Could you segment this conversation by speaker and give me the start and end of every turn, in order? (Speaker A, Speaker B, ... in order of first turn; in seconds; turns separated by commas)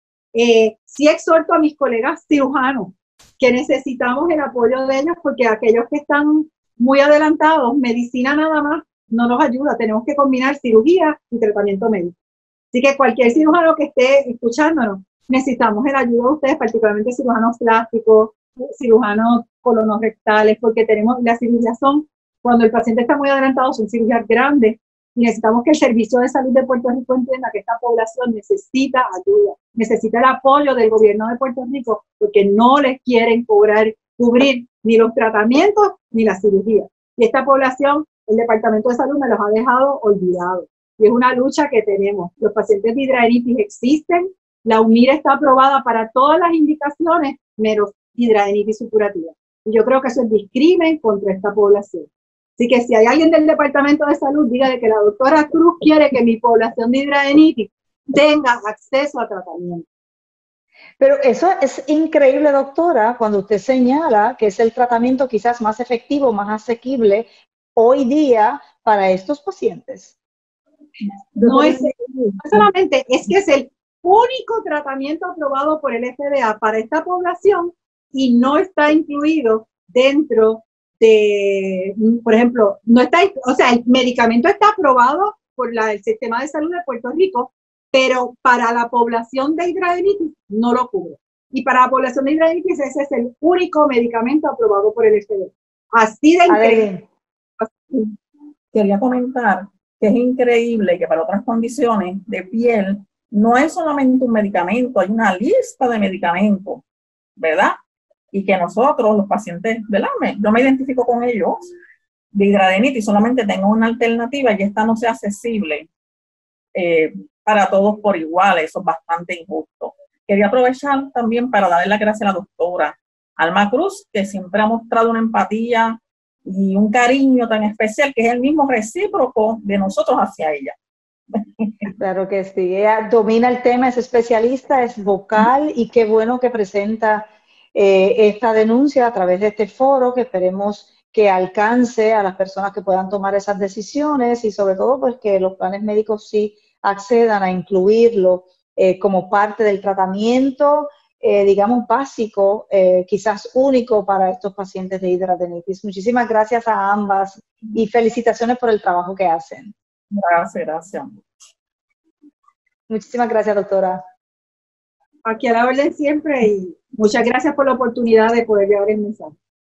Speaker A: 0.3-12.1, Speaker A: 12.7-59.9, Speaker B: 61.0-70.1, Speaker C: 71.4-72.4, Speaker A: 71.4-96.9, Speaker B: 96.5-97.0, Speaker C: 98.7-106.8, Speaker C: 107.4-107.8, Speaker C: 108.3-111.7, Speaker C: 112.3-115.9, Speaker C: 116.8-130.8, Speaker C: 131.3-131.9, Speaker B: 132.0-159.7, Speaker C: 160.1-161.1, Speaker B: 162.9-164.0, Speaker A: 165.2-169.3